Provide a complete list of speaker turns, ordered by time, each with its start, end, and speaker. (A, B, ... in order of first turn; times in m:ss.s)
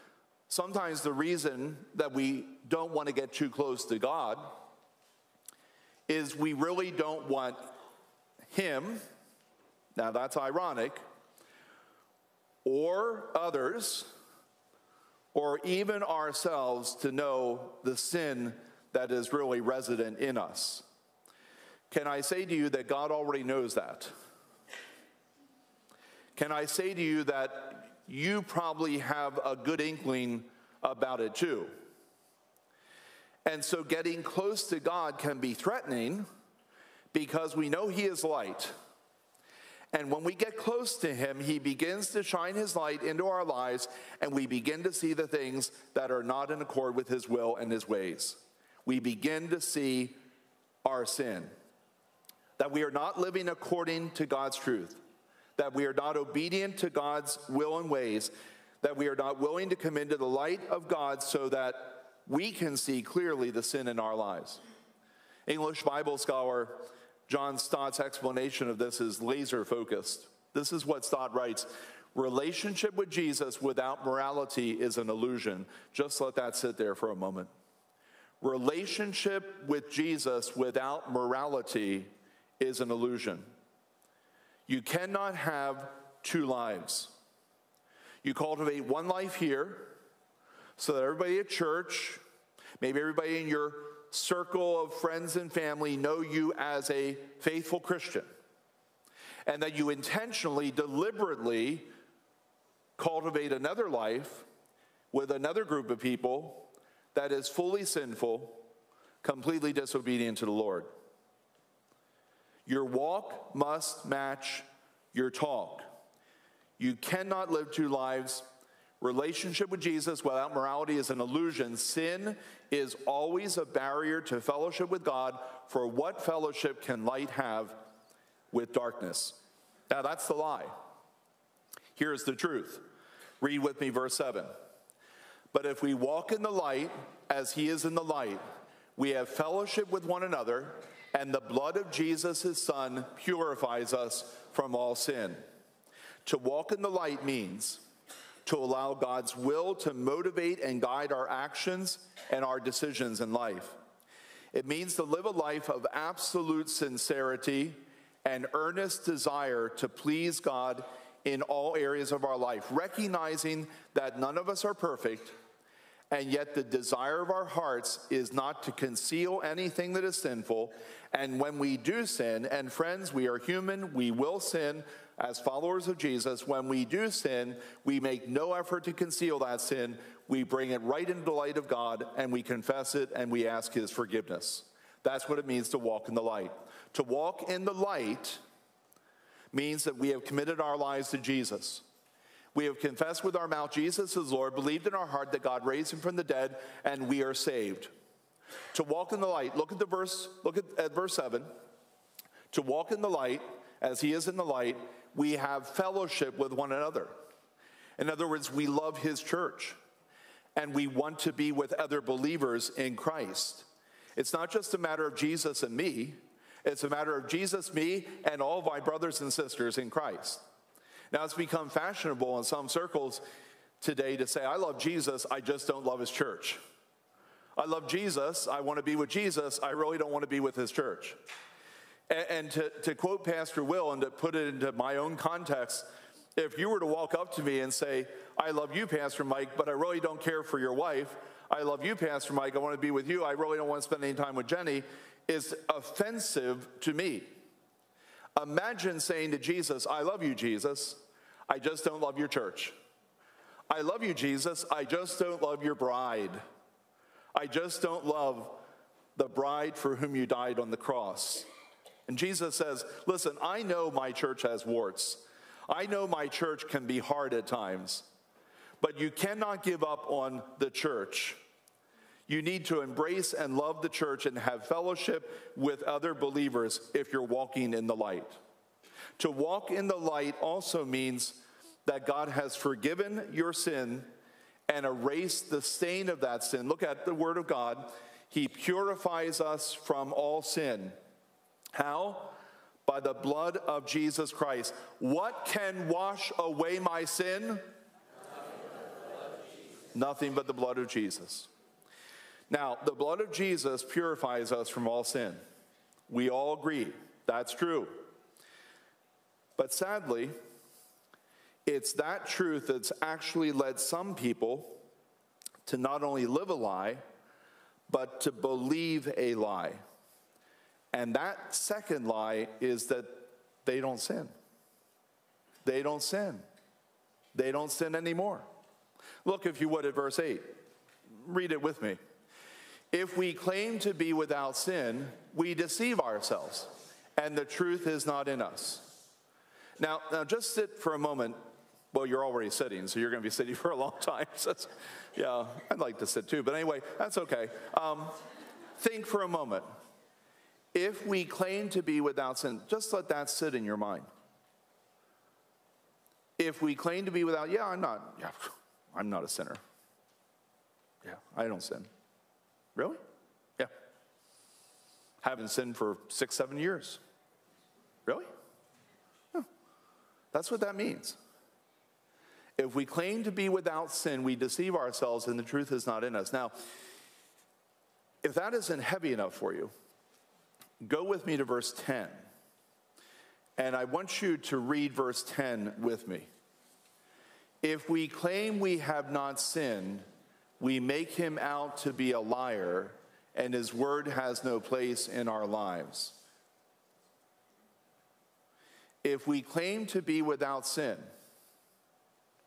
0:00.5-0:04.6 A
0:06.1-0:07.7 A
0:08.5-0:09.0 A
0:10.0-0:11.0 A
0:12.6-0:14.1 A
0:15.3-0:20.8 A
0:21.9-0:24.1 A
0:26.4-0:31.7 A
0:33.4-0:36.2 A
0:37.1-0:38.8 A
0:39.9-0:50.2 A
0:50.8-0:51.5 A
0:52.6-0:55.0 A
0:55.6-1:04.6 A
1:05.5-1:17.5 A
1:18.4-1:23.5 A
1:24.7-1:27.1 A
1:28.2-1:29.9 A
1:30.8-1:32.2 A
1:32.8-1:38.3 A
1:39.5-1:41.9 A
1:43.0-1:44.5 A
1:45.1-1:48.7 A
1:49.2-1:50.9 A
1:52.7-1:55.8 A
1:56.8-1:58.5 A
1:59.0-2:07.8 A
2:08.5-2:10.7 A
2:12.0-2:12.9 A
2:13.4-2:14.5 A
2:15.5-2:18.4 A
2:19.0-2:25.4 A
2:26.2-2:27.8 A
2:28.4-2:33.8 A
2:34.5-2:45.4 A
2:46.1-3:08.4 A
3:09.5-3:11.8 A
3:12.5-3:17.9 A
3:18.7-3:21.5 A
3:22.5-3:27.1 A
3:28.0-3:29.8 A
3:30.6-3:40.4 A
3:41.1-3:43.2 A
3:43.8-3:46.6 A
3:47.6-3:51.2 A
3:52.1-4:07.3 A
4:08.4-4:12.8 A
4:13.7-4:16.4 A
4:17.3-4:18.6 A
4:19.1-4:21.5 A
4:22.1-4:28.1 A
4:28.8-4:31.4 A
4:32.3-4:38.4 A
4:39.2-4:44.1 A
4:44.7-4:51.0 A
4:51.7-4:57.6 A
4:59.9-5:01.5 A
5:02.5-5:05.4 A
5:06.1-5:08.1 A
5:09.6-5:10.4 A
5:11.6-5:14.8 A
5:15.6-5:17.0 A
5:17.9-5:19.8 A
5:20.9-5:24.3 A
5:25.6-5:26.4 A
5:27.3-5:28.4 A
5:29.2-5:30.5 A
5:31.1-5:32.0 A
5:32.9-5:39.0 A
5:39.8-5:41.4 A
5:41.9-5:48.2 A
5:48.8-5:49.6 A
5:50.7-5:54.1 A
5:56.4-5:59.6 A
6:01.0-6:01.9 A
6:02.8-6:03.0 A
6:05.2-6:07.0 A
6:10.3-6:11.2 A
6:12.6-6:16.6 A
6:18.2-6:19.7 A
6:20.8-6:22.2 A
6:23.6-6:26.3 A
6:27.6-6:30.1 A
6:30.6-6:36.2 A
6:39.0-6:41.0 A